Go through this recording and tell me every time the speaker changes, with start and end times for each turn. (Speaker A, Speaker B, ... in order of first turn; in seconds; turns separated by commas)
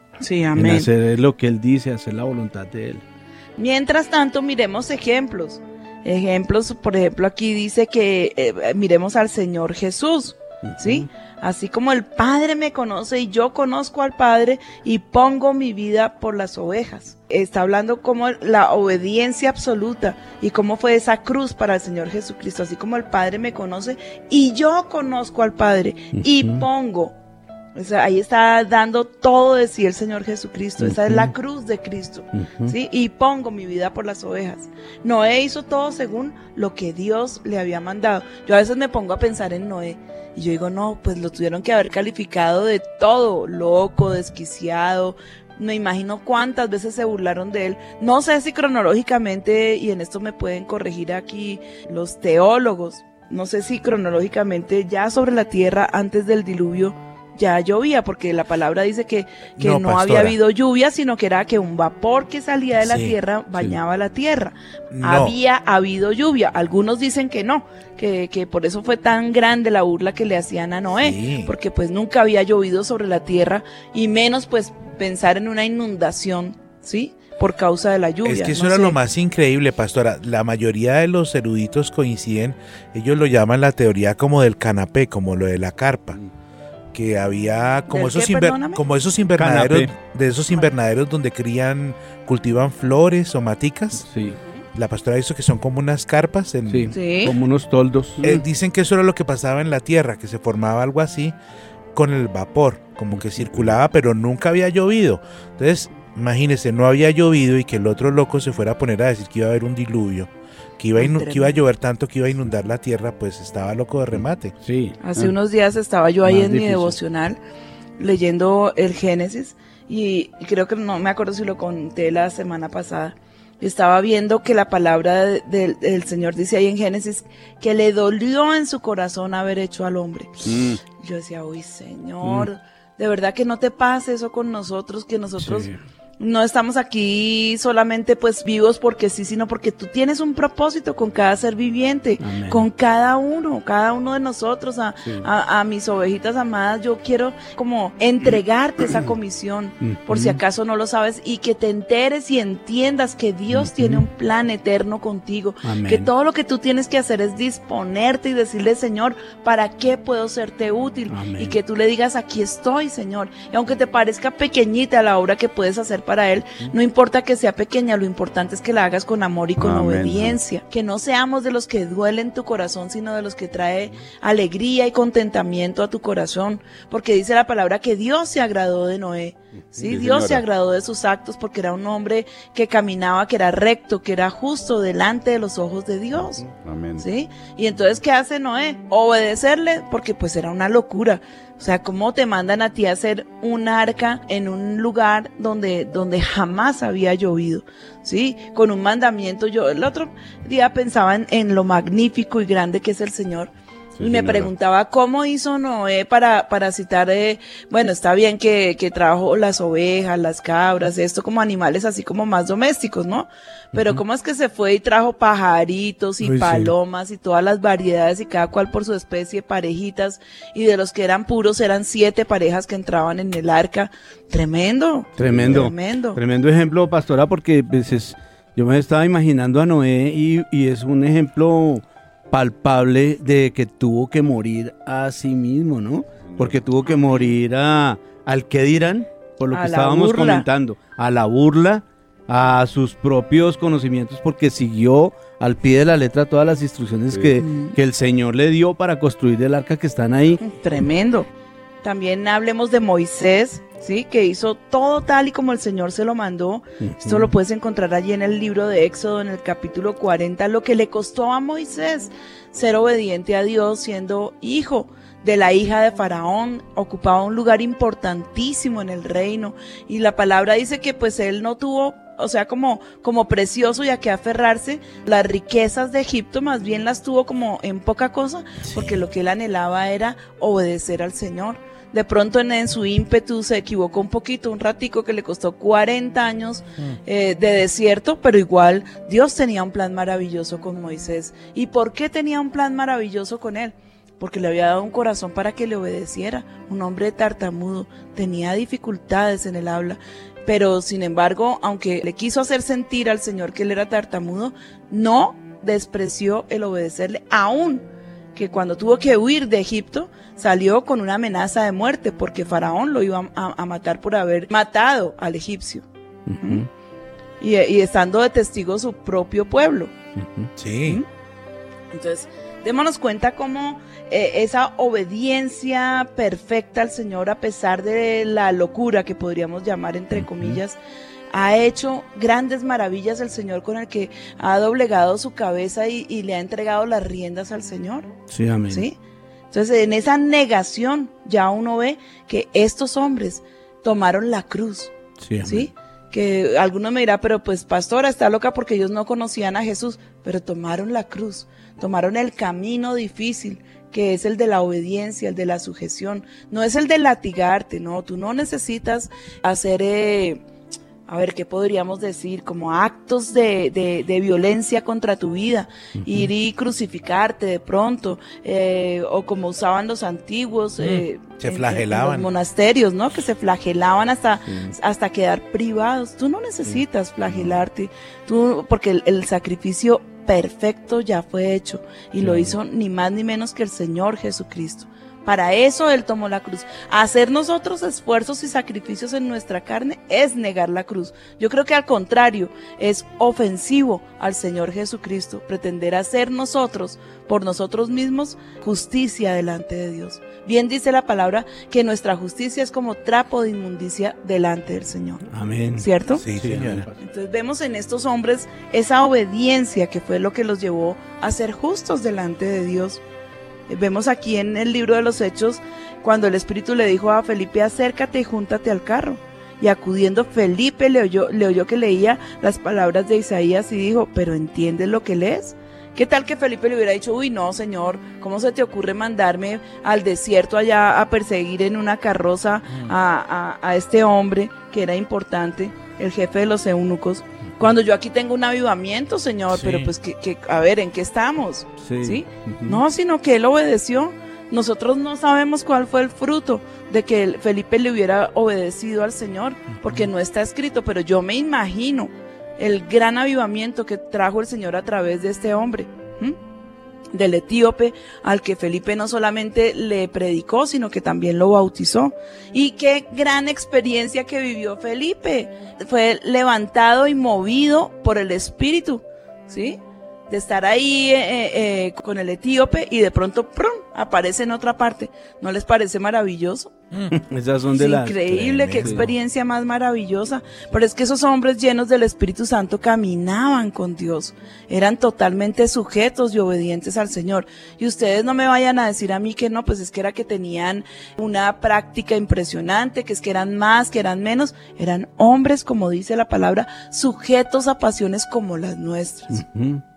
Speaker A: 0.2-0.9, Speaker B: 0.6-3.0, Speaker A: 3.6-27.1, Speaker B: 10.6-11.1, Speaker B: 26.1-26.6, Speaker A: 27.7-79.0, Speaker B: 30.8-31.3, Speaker B: 32.3-32.7, Speaker C: 59.6-60.4, Speaker C: 62.8-63.1, Speaker C: 64.9-65.3, Speaker C: 71.0-71.5, Speaker C: 78.2-86.2, Speaker C: 86.9-94.0, Speaker A: 87.9-88.8, Speaker B: 89.4-89.9, Speaker B: 94.0-94.4, Speaker C: 94.7-96.9, Speaker B: 96.7-98.3, Speaker A: 96.9-97.3, Speaker C: 98.2-101.3, Speaker C: 101.9-114.5, Speaker B: 103.4-103.7, Speaker A: 111.0-111.6, Speaker B: 114.1-115.0, Speaker A: 115.0-117.4, Speaker B: 116.2-117.0, Speaker A: 118.0-186.4, Speaker D: 130.4-130.8, Speaker B: 132.2-132.5, Speaker B: 135.4-135.8, Speaker B: 142.2-142.7, Speaker B: 149.8-150.4, Speaker B: 153.5-154.0, Speaker B: 155.6-156.1, Speaker B: 161.1-161.6, Speaker D: 169.6-170.4, Speaker D: 179.8-180.4, Speaker D: 186.6-187.1, Speaker A: 187.0-226.2, Speaker D: 204.0-204.5, Speaker B: 213.7-214.0, Speaker B: 216.2-216.7, Speaker B: 225.2-250.4, Speaker D: 225.2-225.6, Speaker D: 236.2-236.7, Speaker A: 236.9-237.3, Speaker A: 239.5-240.5, Speaker A: 247.4-247.8, Speaker A: 250.4-251.3, Speaker A: 251.8-307.8, Speaker B: 256.8-257.3, Speaker C: 278.7-279.0, Speaker A: 308.3-315.8, Speaker B: 316.2-316.7, Speaker A: 317.4-319.9, Speaker B: 320.1-320.5, Speaker C: 320.6-321.0, Speaker A: 321.9-330.8, Speaker B: 330.1-330.6, Speaker A: 331.3-338.1, Speaker B: 338.3-338.9, Speaker A: 338.7-339.0, Speaker A: 339.5-344.9, Speaker B: 345.2-345.7, Speaker A: 345.4-360.4, Speaker A: 361.1-405.2, Speaker B: 366.0-366.3, Speaker C: 370.8-372.3, Speaker B: 374.5-374.7, Speaker B: 382.2-382.6, Speaker B: 405.3-407.0, Speaker A: 405.8-406.2, Speaker C: 406.2-406.9, Speaker A: 407.0-413.0, Speaker A: 413.7-456.4, Speaker C: 439.5-439.9, Speaker B: 441.8-442.8, Speaker A: 457.1-476.7, Speaker B: 477.1-478.2, Speaker A: 477.7-499.4, Speaker C: 478.2-479.1, Speaker B: 478.7-479.1, Speaker B: 499.3-499.8